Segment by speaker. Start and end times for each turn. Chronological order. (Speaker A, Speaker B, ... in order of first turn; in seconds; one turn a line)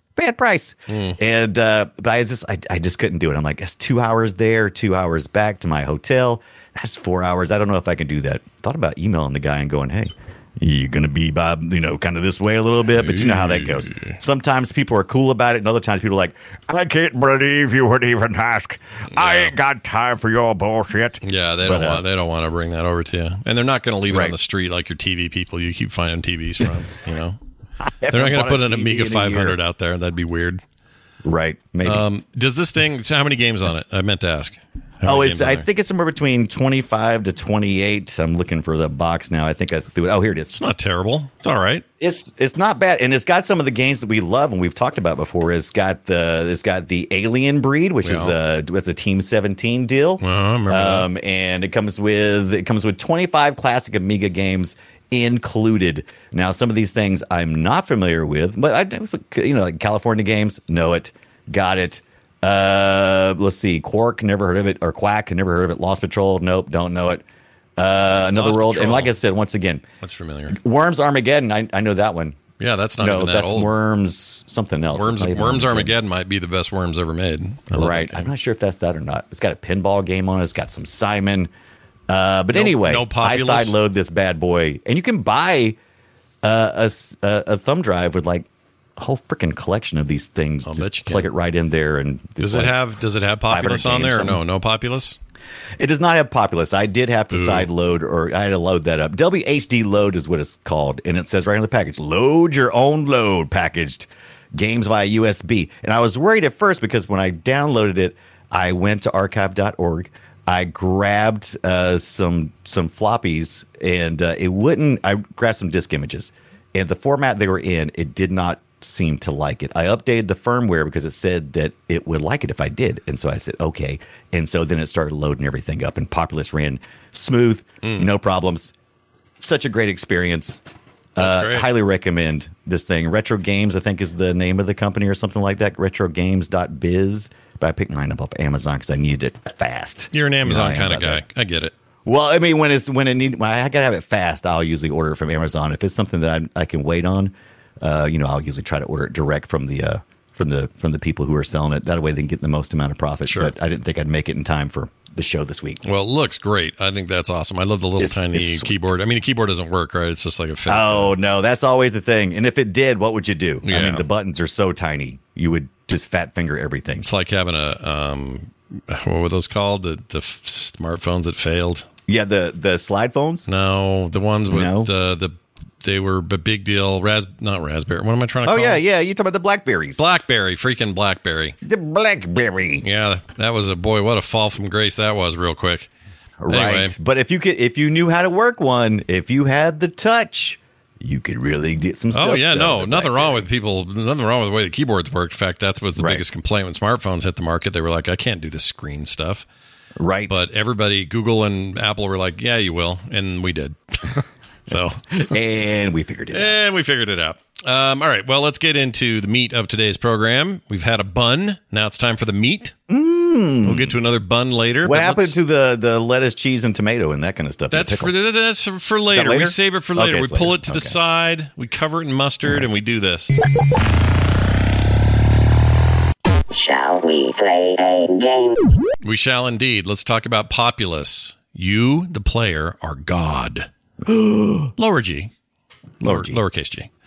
Speaker A: 0.2-22.0
Speaker B: 0.9-1.2
Speaker B: 12.9-14.2
Speaker B: 19.1-19.6
Speaker B: 21.2-27.4
Speaker A: 24.1-24.4
Speaker A: 28.0-29.6
Speaker B: 28.1-30.6
Speaker A: 31.2-32.0
Speaker B: 31.8-35.7
Speaker A: 35.1-40.6
Speaker B: 40.5-41.8
Speaker A: 42.0-67.2
Speaker B: 48.0-48.4
Speaker B: 50.2-51.1
Speaker A: 67.8-69.8
Speaker B: 68.2-69.1
Speaker B: 70.0-70.6
Speaker A: 70.5-72.4
Speaker B: 72.6-73.7
Speaker A: 73.0-75.9
Speaker B: 74.9-78.3
Speaker A: 77.7-81.5
Speaker A: 82.1-85.8
Speaker B: 82.5-83.8
Speaker A: 86.4-92.8
Speaker B: 90.7-91.3
Speaker B: 92.4-95.2
Speaker A: 93.5-94.4
Speaker A: 95.8-128.7
Speaker B: 97.3-97.7
Speaker B: 127.8-128.1
Speaker A: 129.4-130.6
Speaker A: 131.2-141.2
Speaker B: 131.2-131.7
Speaker B: 140.1-141.7
Speaker A: 142.1-155.8
Speaker B: 153.3-153.5
Speaker B: 155.8-161.2
Speaker A: 158.0-158.8
Speaker A: 160.7-167.1
Speaker B: 163.6-164.1
Speaker B: 167.0-171.9
Speaker A: 172.1-173.5
Speaker B: 173.5-178.8
Speaker A: 174.5-174.9
Speaker A: 178.4-180.1
Speaker B: 180.0-181.6
Speaker A: 181.6-182.8
Speaker B: 182.8-185.9
Speaker A: 186.4-193.5
Speaker B: 186.5-187.0
Speaker B: 192.1-199.5
Speaker A: 196.0-196.2
Speaker A: 200.0-200.4
Speaker B: 200.3-205.1
Speaker A: 205.1-206.6
Speaker B: 206.3-212.7
Speaker A: 212.9-214.0
Speaker B: 213.6-215.4
Speaker A: 214.8-218.1
Speaker B: 217.7-223.4
Speaker A: 219.1-221.0
Speaker C: 226.5-228.7
Speaker B: 229.0-233.7
Speaker A: 234.0-234.7
Speaker B: 234.8-235.3
Speaker B: 236.0-236.9
Speaker A: 236.0-236.4